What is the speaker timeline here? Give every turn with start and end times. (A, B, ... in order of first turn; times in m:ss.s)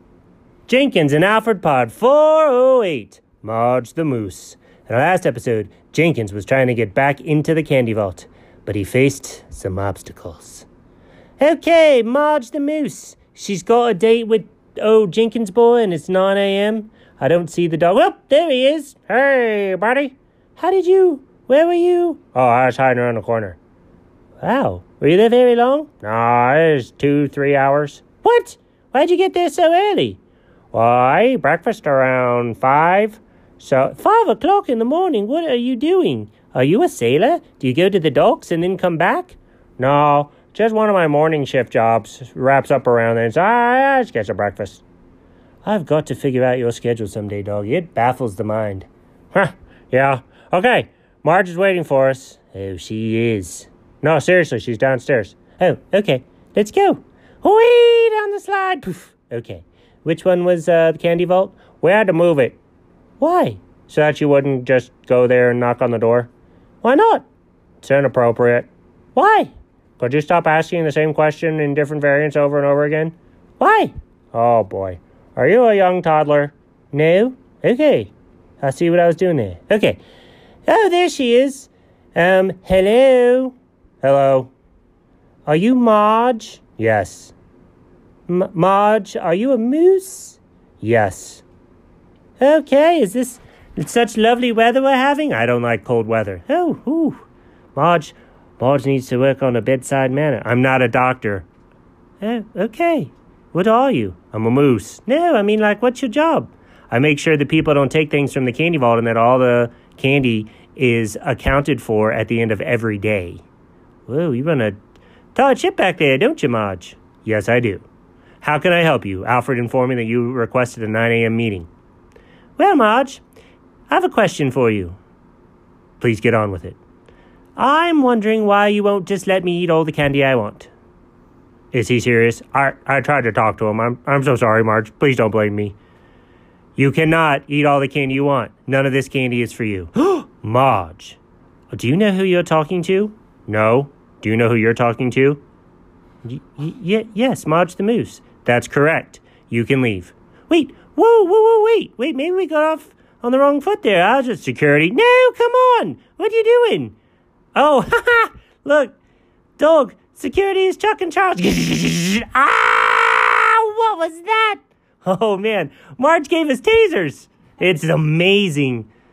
0:00.7-0:10.7 A
0:11.4-0:23.6 A
0:24.4-0:30.2 A
0:30.7-0:44.8 A
0:45.6-1:02.6 A
1:03.2-1:06.3 A
1:06.8-1:07.2 A
1:07.8-1:20.0 A
1:20.7-1:24.5 A
1:25.5-1:27.3 A
1:28.3-1:31.4 A
1:32.4-1:37.2 A
1:37.8-1:41.5 A
1:42.2-1:53.4 A
1:54.1-1:54.8 A
1:55.4-1:57.9 A
1:58.4-2:01.7 A
2:02.6-2:03.2 A
2:03.9-2:05.0 A
2:06.0-2:06.8 A
2:07.6-2:10.7 A
2:11.7-2:15.8 A
2:16.8-2:21.2 A
2:21.7-2:25.4 A
2:26.2-2:37.0 A
2:37.6-2:39.0 A
2:39.6-2:48.9 A